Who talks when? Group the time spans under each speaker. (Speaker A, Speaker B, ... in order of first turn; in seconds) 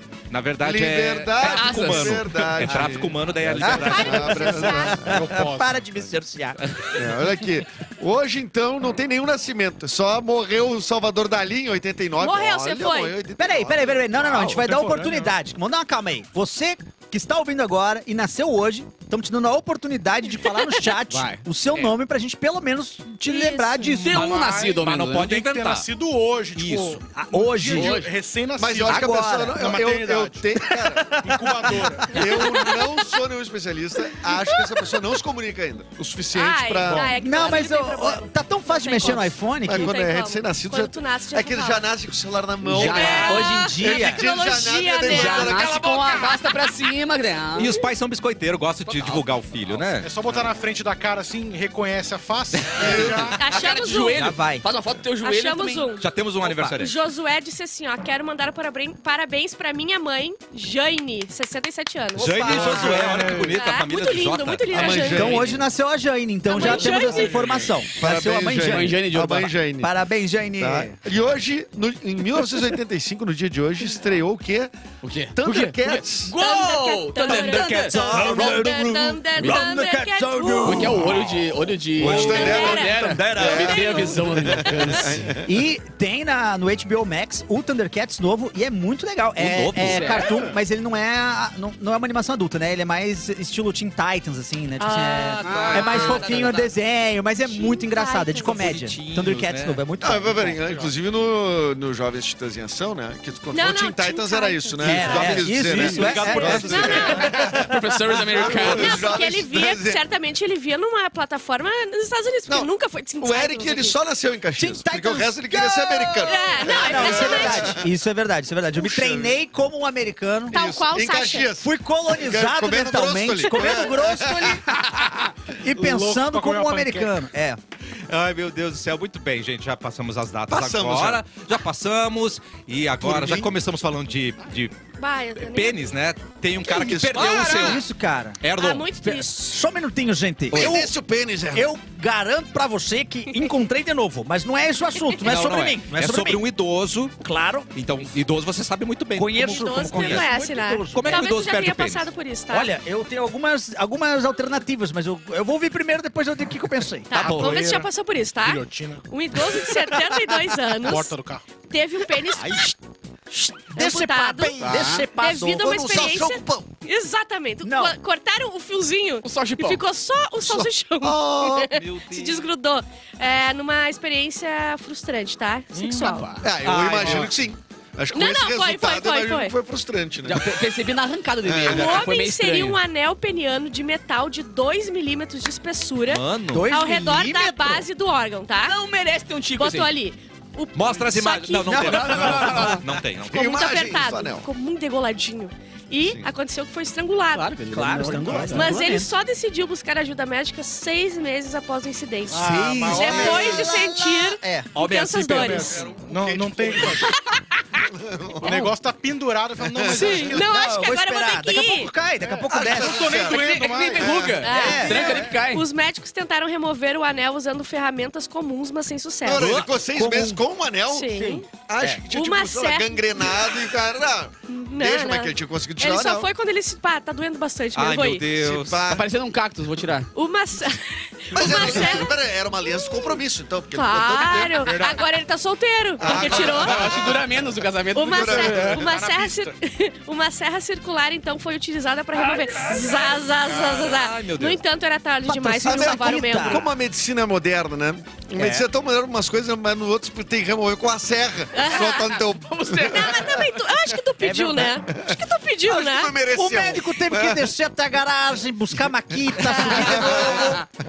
Speaker A: 0.3-4.9, 6.6-7.0, 24.1-25.9, 26.6-27.0, 47.6-50.1, 56.0-57.0, 62.2-65.1, 89.4-90.2, 95.4-96.6, 98.4-99.8, 104.8-107.3, 128.1-134.8, 135.4-137.8, 138.4-138.9, 140.5-140.8, 145.2-147.2, 147.7-150.3, 150.9-152.1, 171.7-172.5, 186.1-186.7, 190.7-193.5, 227.7-229.0, 243.5-244.6
Speaker B: 0.6-3.2, 3.9-5.2, 6.9-14.3, 28.6-31.2, 32.1-37.1, 39.6-46.4, 50.2-50.5, 52.8-53.4, 62.5-63.3, 64.7-65.6, 66.6-69.9, 70.6-74.7, 75.3-76.3, 77.9-78.8, 80.8-81.1, 82.0-85.5, 100.0-107.6, 108.4-110.0, 112.5-117.8, 118.8-119.4, 120.5-124.6, 130.5-131.2, 133.0-133.5, 136.6-137.8, 140.5-141.7, 164.6-165.0, 165.5-166.7, 170.4-171.7, 176.4-180.6, 181.4-182.0, 193.3-194.5, 196.0-196.3, 205.8-206.8, 207.9-208.6, 209.6-210.3, 212.5-215.0, 219.2-226.3, 228.3-229.0, 231.3-234.7, 236.0-237.2, 238.1-238.9, 245.6-253.3, 254.9-257.5, 259.1-260.6
Speaker C: 1.4-2.2, 3.4-3.9, 21.1-21.4, 23.9-25.4, 27.7-28.1, 42.6-43.6, 45.0-47.7, 48.9-49.2, 53.5-55.9, 68.4-69.5, 75.0-78.0, 79.3-79.6, 80.6-85.2, 89.8-90.3, 95.4-96.6, 107.0-109.0, 157.2-157.6, 164.6-165.1, 169.2-169.8, 175.7-176.5, 180.2-182.8, 188.7-189.9, 191.6-192.8, 197.3-198.8, 213.2-215.6, 228.9-230.1, 236.0-238.8, 252.4-253.5
Speaker D: 3.6-6.6, 13.4-24.2, 27.1-28.0, 28.8-29.6, 30.8-32.6, 37.1-39.9, 42.8-44.2, 54.1-54.6, 56.4-56.8, 62.1-63.5, 65.1-69.0, 69.8-71.0, 77.3-81.3, 82.0-84.9, 85.4-100.6, 104.8-108.7, 114.6-120.6, 121.6-124.9, 125.6-127.6, 137.4-138.4, 139.0-140.9, 141.5-146.4, 147.2-147.7, 149.1-151.3, 152.5-157.6, 163.7-165.7, 167.6-167.9, 176.6-177.3, 186.5-187.8, 191.7-192.8, 197.7-199.1, 202.3-205.7, 210.3-213.3, 214.5-215.2, 219.4-220.4, 221.1-222.0, 245.2-246.7, 248.3-248.7, 254.2-254.8, 256.3-260.6
Speaker E: 3.9-5.0, 12.2-13.2, 23.2-23.9, 34.4-35.1, 36.3-41.9, 42.8-45.6, 47.6-47.9, 53.3-54.3, 55.2-56.1, 56.7-62.4, 63.5-65.5, 66.5-67.4, 76.4-80.9, 82.1-83.0, 83.5-84.3, 94.8-96.0, 97.4-98.7, 103.5-105.4, 106.6-107.4, 108.5-114.0, 116.2-117.8, 120.5-121.5, 135.0-135.9, 137.2-137.6, 138.6-139.3, 149.4-152.7, 157.1-161.2, 161.7-162.7, 163.3-176.4, 178.1-179.5, 181.6-188.8, 189.6-192.1, 193.3-197.5, 198.5-205.9, 207.0-207.4, 209.9-211.9, 214.4-219.5, 220.9-221.5, 222.1-223.5, 224.5-228.3, 230.1-233.2, 233.7-236.9, 237.9-246.7, 251.5-252.2, 252.7-256.1, 259.5-260.2
Speaker F: 5.0-5.8, 14.3-15.3, 24.0-30.4, 31.1-32.3, 50.0-53.4, 62.5-63.5, 125.7-127.1, 157.2-159.0, 160.8-161.4, 202.3-203.8, 205.3-207.2, 208.4-210.4, 212.6-214.1, 234.6-235.0, 238.8-239.5, 243.5-243.8